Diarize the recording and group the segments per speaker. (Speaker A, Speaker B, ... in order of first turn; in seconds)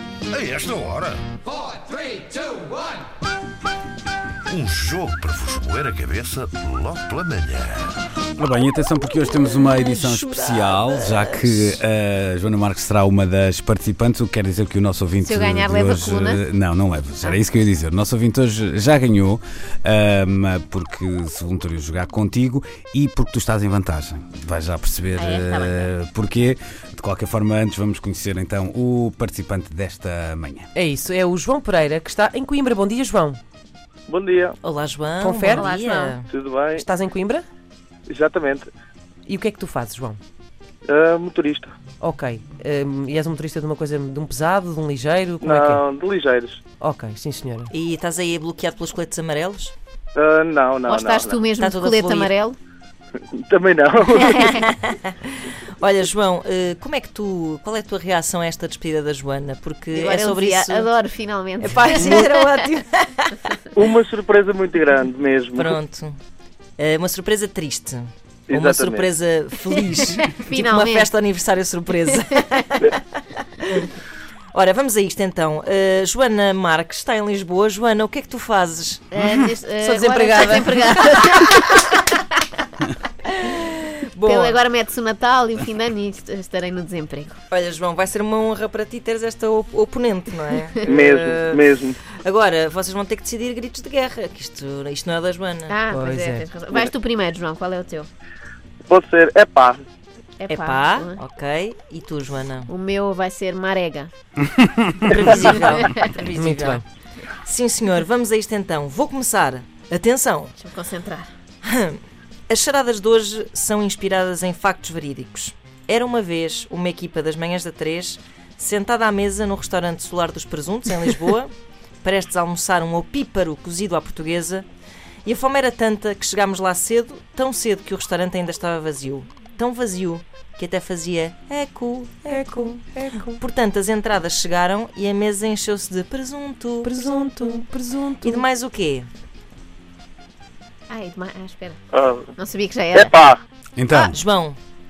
Speaker A: 0.3-1.2, 4.5-8.0
Speaker B: 8.4-30.7, 143.8-144.2
Speaker C: 9.1-11.8, 34.6-36.3, 47.7-49.7, 51.6-52.3, 54.3-60.9, 61.6-63.4, 65.6-66.2, 66.8-73.0, 74.5-79.1, 83.4-84.6, 87.5-91.6, 92.2-95.8, 100.5-102.7, 105.1-106.8, 107.5-110.6, 111.7-124.7, 125.2-132.8, 133.4-136.9, 138.2-139.1, 144.1-144.6
Speaker D: 15.2-16.4, 25.2-25.9, 35.5-36.2, 50.9-52.6, 59.9-62.5, 70.2-71.1, 79.1-82.3, 84.2-87.4, 95.7-98.1, 100.4-101.2, 102.7-104.1, 105.4-106.1, 110.6-111.3, 140.9-141.8, 142.4-143.1
Speaker E: 30.7-33.4, 35.2-35.6, 36.8-37.5, 39.3-40.2, 42.0-45.8, 46.8-47.7, 61.6-62.8, 79.8-81.1, 95.9-96.5, 106.3-106.8, 132.3-133.4, 136.8-138.5
Speaker F: 34.1-34.6, 36.3-36.8, 38.1-38.7, 40.9-41.7, 45.4-46.6, 50.1-51.4, 53.3-54.6, 63.8-65.8, 68.5-69.1, 90.8-92.0, 98.9-99.8, 141.9-142.3, 142.9-143.4